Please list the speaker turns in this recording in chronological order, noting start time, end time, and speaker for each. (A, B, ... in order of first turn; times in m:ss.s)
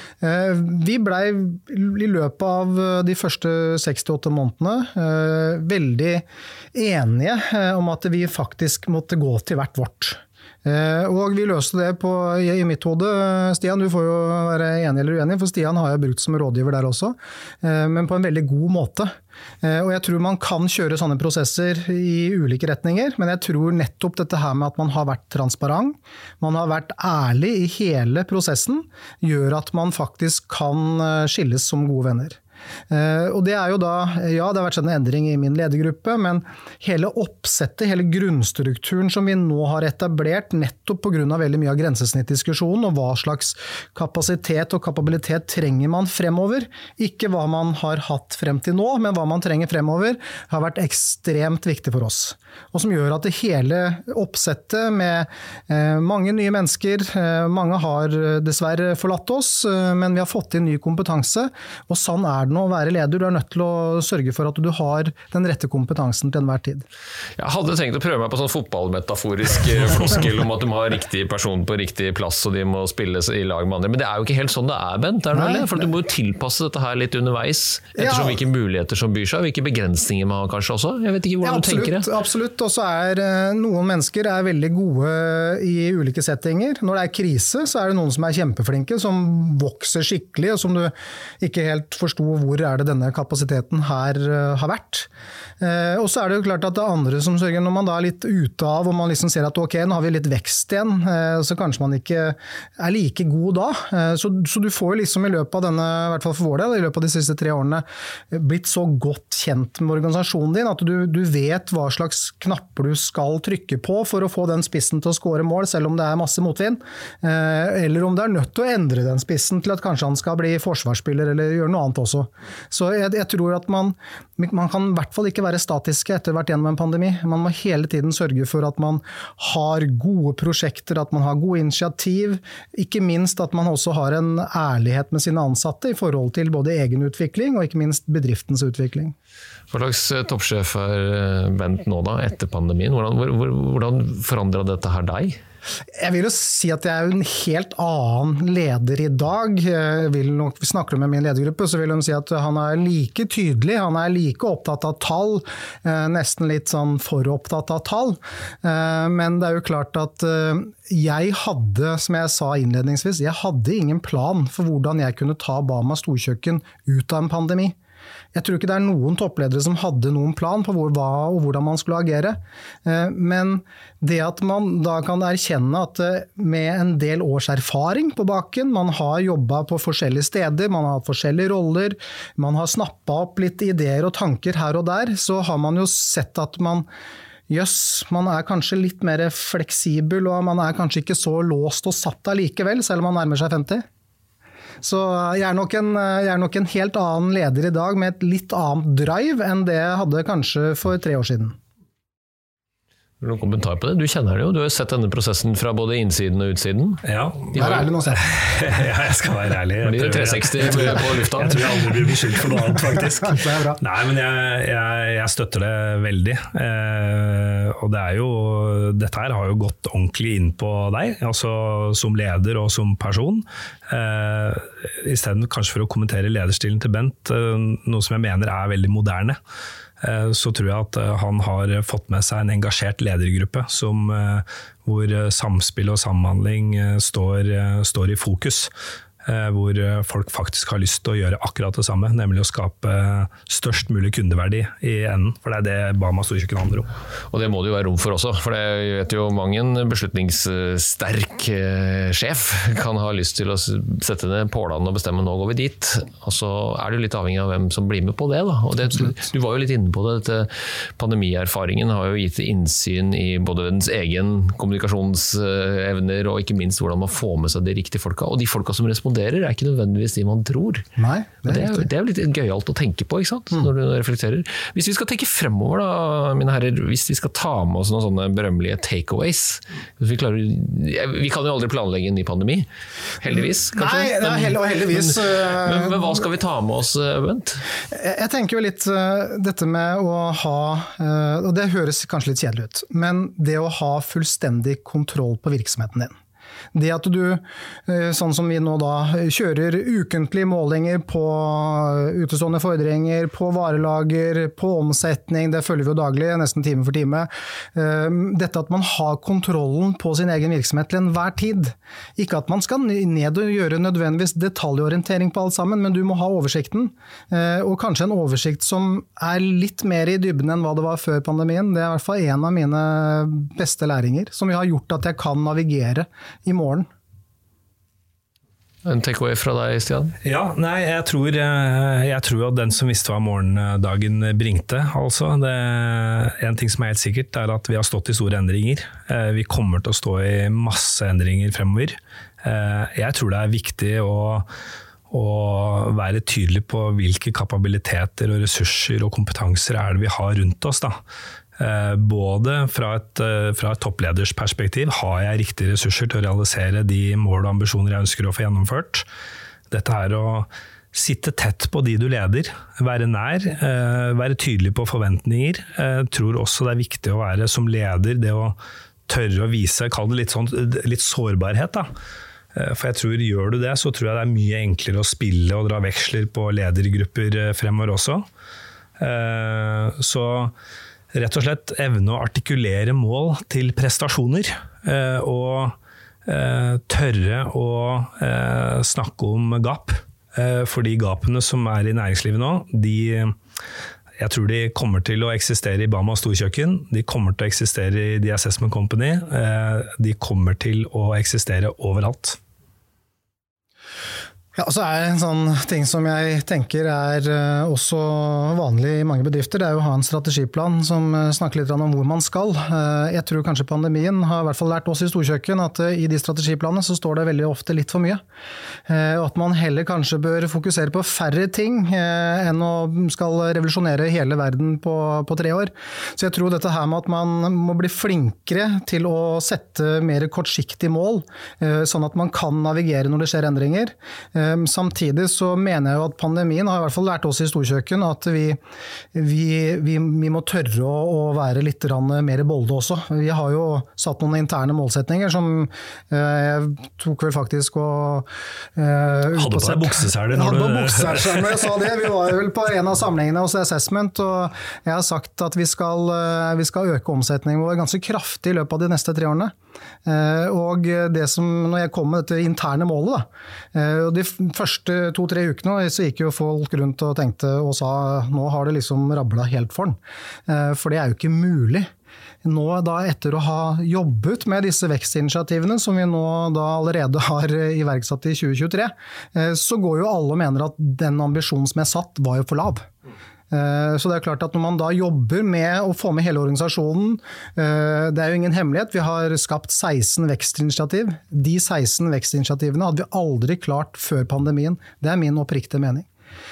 0:00.2-0:32.4 A
0:32.9-1:06.8 A
1:07.4-1:22.1 B
1:15.3-1:15.9 A
1:18.0-1:18.4 A
1:21.4-1:35.1 A
1:35.6-2:19.2 A
2:19.7-2:25.4 B
2:26.0-2:47.8 A
2:48.3-3:06.9 A
3:07.5-3:13.8 A
3:14.8-3:21.6 A
3:23.2-3:27.0 B
3:27.0-3:49.4 C
3:27.6-3:28.2 A
3:29.8-3:31.8 B
3:33.3-3:33.8 A
3:50.0-3:58.7 C
3:59.2-4:06.9 C
4:07.3-4:30.9 B
4:31.0-4:31.9 A
4:31.5-4:42.7 B
4:43.2-4:47.6 B
4:43.7-4:46.2 A
4:47.9-4:56.1 A
4:56.7-5:26.9 A
5:28.8-5:30.2 B
5:30.2-5:44.5 C
5:45.1-5:51.0 C
5:51.6-5:59.1 C
5:59.7-6:08.6 C
6:09.1-6:11.9 C
6:12.6-6:18.3 C
6:19.0-6:20.5 C
6:21.1-6:33.4 C
6:34.2-6:42.4 C
6:44.6-6:58.2 A
6:58.9-7:18.6 A
7:19.1-7:39.5 A
7:29.4-7:31.4 C
7:40.1-7:51.9 A
7:52.4-8:02.9 A
8:03.5-8:16.1 A